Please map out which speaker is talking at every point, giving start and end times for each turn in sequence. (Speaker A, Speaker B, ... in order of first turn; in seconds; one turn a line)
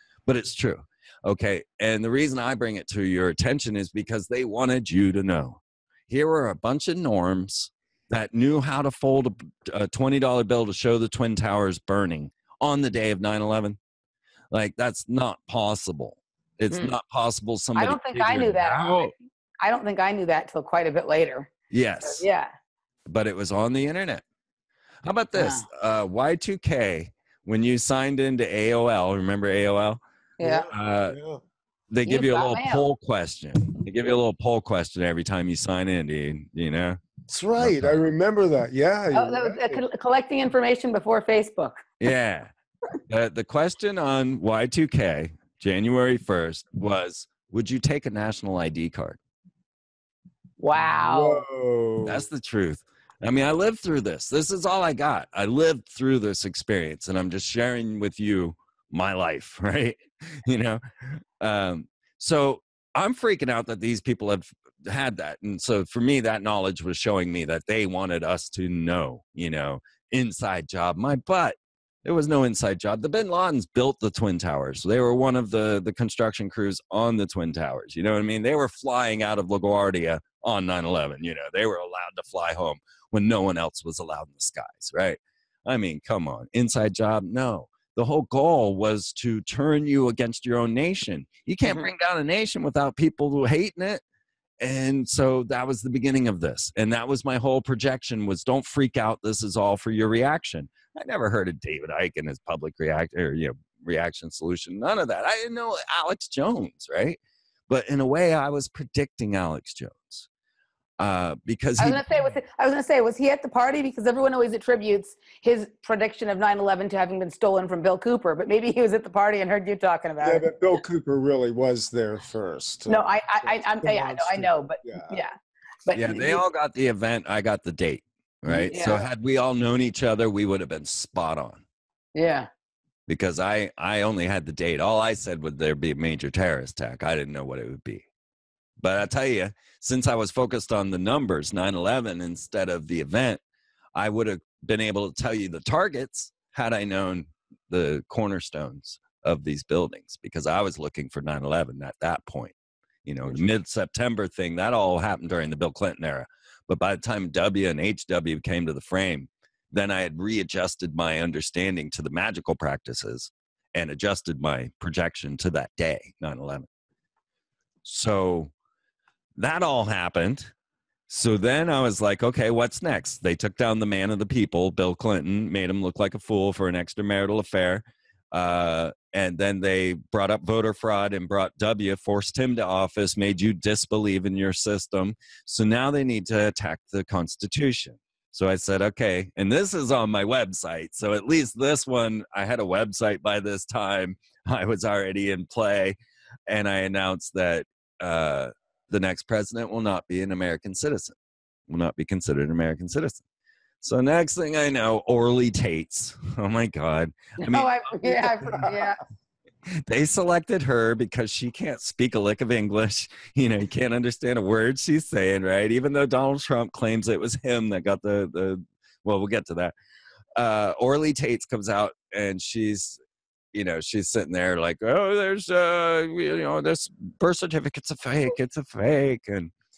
Speaker A: 0.3-13.8
Speaker A: 14.5-19.1
Speaker B: 17.8-21.5
Speaker A: 21.7-22.2
Speaker B: 22.0-22.5
Speaker A: 23.1-24.2
Speaker A: 25.0-30.0
Speaker B: 25.3-25.6
Speaker B: 30.4-30.7
Speaker C: 30.4-31.4
Speaker A: 30.7-31.1
Speaker A: 31.9-37.0
Speaker B: 32.0-32.9
Speaker C: 37.3-39.8
Speaker A: 37.6-37.9
Speaker B: 39.1-41.8
Speaker A: 42.0-42.5
Speaker A: 43.1-49.2
Speaker B: 50.6-51.4
Speaker C: 51.0-52.2
Speaker A: 52.0-94.0
Speaker A: 94.6-110.3
Speaker A: 111.0-112.0
Speaker B: 111.8-120.5
Speaker C: 120.2-125.2
Speaker B: 122.9-125.3
Speaker B: 125.8-126.4
Speaker A: 125.9-131.6
Speaker B: 128.7-129.0
Speaker B: 132.1-132.5
Speaker A: 133.1-138.0
Speaker A: 138.8-143.4
Speaker A: 143.9-166.7
Speaker A: 167.8-168.5
Speaker A: 169.3-170.5
Speaker A: 171.1-196.0
Speaker A: 196.5-201.1
Speaker A: 201.7-203.2
Speaker A: 203.8-208.3
Speaker B: 207.4-209.0
Speaker C: 208.4-208.7
Speaker A: 209.7-219.7
Speaker A: 220.3-223.0
Speaker A: 223.5-229.5